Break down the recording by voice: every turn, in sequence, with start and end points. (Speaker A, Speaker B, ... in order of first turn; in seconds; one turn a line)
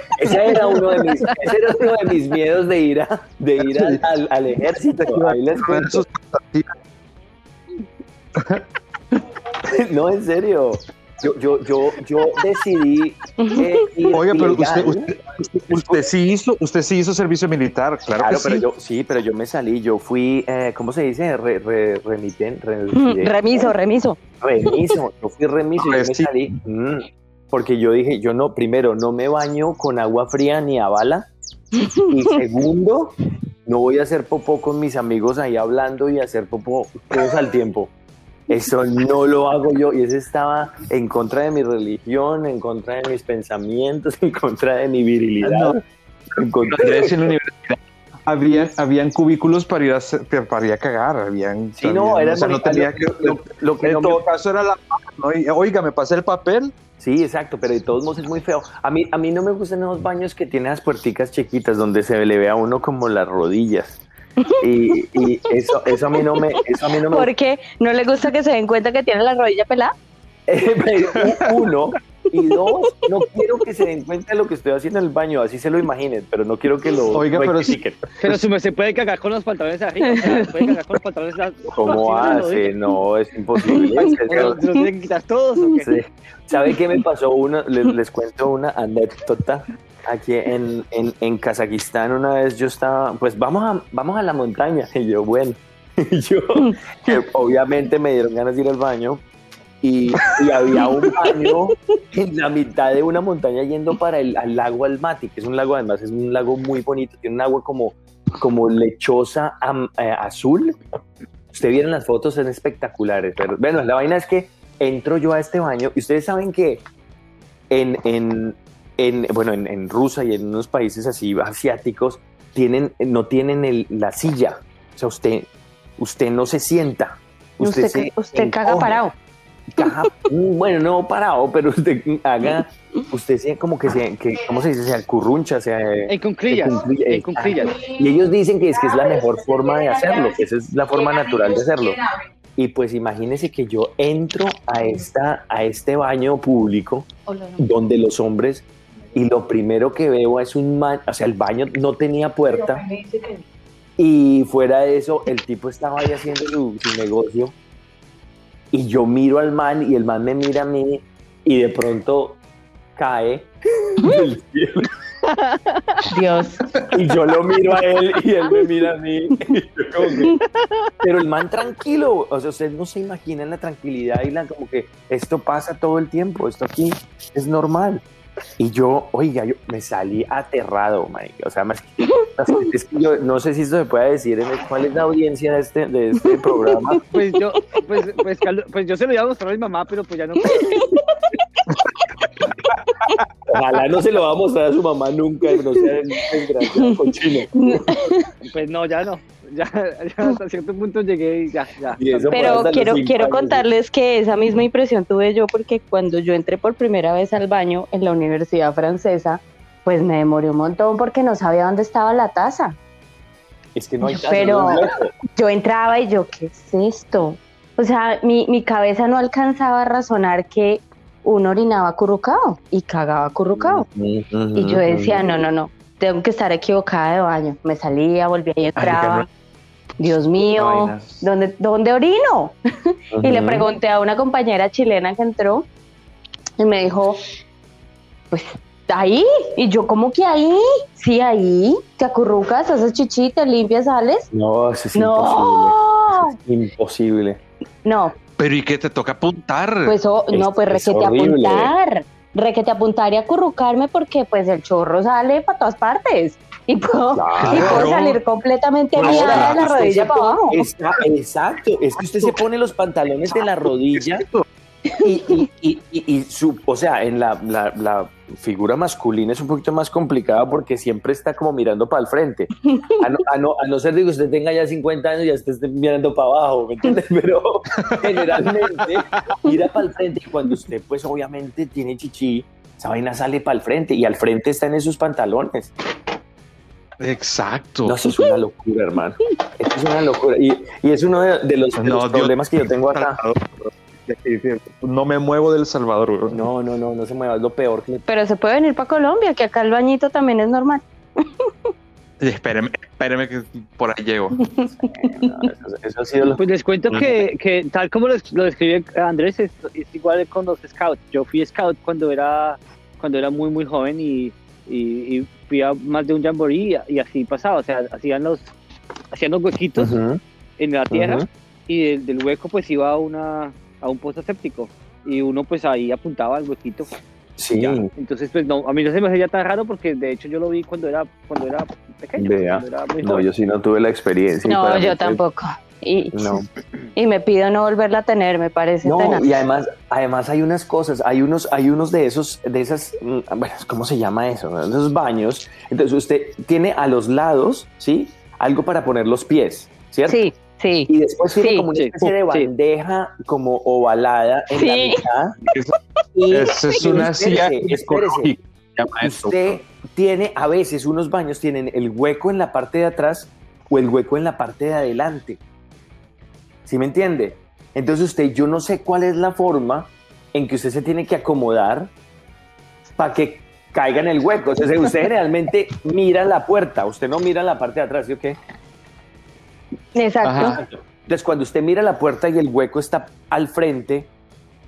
Speaker A: 0.2-6.0
Speaker B: 3.6-4.0
Speaker B: 5.0-6.7
Speaker B: 8.3-8.6
Speaker A: 9.6-15.2
Speaker C: 13.4-13.7
Speaker B: 14.1-18.6
Speaker A: 15.7-16.1
Speaker A: 18.2-23.7
Speaker C: 22.9-24.8
Speaker A: 24.4-31.3
Speaker B: 25.8-26.3
Speaker C: 31.8-32.1
Speaker A: 32.1-33.1
Speaker A: 33.6-37.9
Speaker A: 38.5-45.8
Speaker B: 45.4-45.8
Speaker A: 46.4-47.4
Speaker B: 46.6-56.7
Speaker A: 51.7-54.2
Speaker A: 57.0-64.0
Speaker C: 64.5-65.3
Speaker A: 64.6-67.3
Speaker C: 67.1-69.9
Speaker A: 70.5-78.0
Speaker B: 71.1-71.5
Speaker B: 77.1-78.4
Speaker D: 78.2-82.7
Speaker C: 80.3-80.5
Speaker A: 81.7-84.6
Speaker D: 84.0-86.0
Speaker A: 85.8-99.2
Speaker A: 99.8-110.8
Speaker C: 100.8-101.3
Speaker A: 111.5-116.8
Speaker A: 117.7-129.0
Speaker C: 127.6-129.1
Speaker A: 129.7-142.0
Speaker C: 129.8-130.1
Speaker D: 136.1-137.8
Speaker C: 139.0-140.3
Speaker C: 141.3-142.1
Speaker A: 142.6-152.8
Speaker C: 147.3-147.6
Speaker C: 152.5-153.4
Speaker A: 154.0-157.5
Speaker A: 158.7-162.4
Speaker A: 162.9-164.9
Speaker D: 165.3-166.0
Speaker C: 166.1-166.6
Speaker A: 166.9-170.3
Speaker A: 171.0-178.0
Speaker A: 178.6-187.0
Speaker D: 187.1-190.9
Speaker C: 190.4-191.0
Speaker A: 193.5-198.1
Speaker C: 197.6-198.3
Speaker D: 198.4-202.7
Speaker A: 202.0-203.7
Speaker C: 202.3-212.8
Speaker A: 213.7-215.1
Speaker C: 214.0-223.8
Speaker A: 223.6-225.2
Speaker C: 224.6-229.2
Speaker B: 228.8-229.3
Speaker C: 230.0-235.7
Speaker B: 230.5-231.2
Speaker A: 233.1-233.7
Speaker C: 236.6-237.2
Speaker C: 238.3-244.3
Speaker A: 244.3-247.4
Speaker C: 244.9-246.3
Speaker C: 247.8-248.1
Speaker B: 248.4-249.9
Speaker C: 249.8-260.6
Speaker A: 250.3-251.7
Speaker A: 257.1-257.9
Speaker B: 257.4-258.2
Speaker B: 259.0-259.7
Speaker A: 259.0-264.2
Speaker B: 264.0-264.4
Speaker A: 265.0-285.7
Speaker C: 272.6-273.0
Speaker B: 277.9-279.4
Speaker B: 287.0-288.0
Speaker A: 287.8-293.2
Speaker B: 291.7-296.4
Speaker A: 296.3-298.0
Speaker C: 298.1-301.5
Speaker B: 302.2-304.4
Speaker C: 304.6-305.3
Speaker A: 304.7-307.2
Speaker D: 306.4-318.5
Speaker D: 319.1-319.9
Speaker A: 319.8-320.2
Speaker D: 320.6-326.9
Speaker A: 320.9-321.2
Speaker A: 327.4-327.9
Speaker D: 327.6-333.2
Speaker A: 332.2-335.2
Speaker C: 334.4-336.4
Speaker A: 336.1-336.5
Speaker C: 336.9-339.3
Speaker A: 338.8-350.2
Speaker C: 350.1-351.7
Speaker A: 350.9-355.4
Speaker D: 351.7-352.5
Speaker C: 354.5-355.0
Speaker B: 355.4-355.7
Speaker A: 356.1-358.4
Speaker B: 356.3-359.6
Speaker A: 359.0-365.4
Speaker A: 366.6-371.9
Speaker A: 373.0-378.4
Speaker C: 379.9-380.6
Speaker B: 380.2-380.6
Speaker A: 380.4-384.1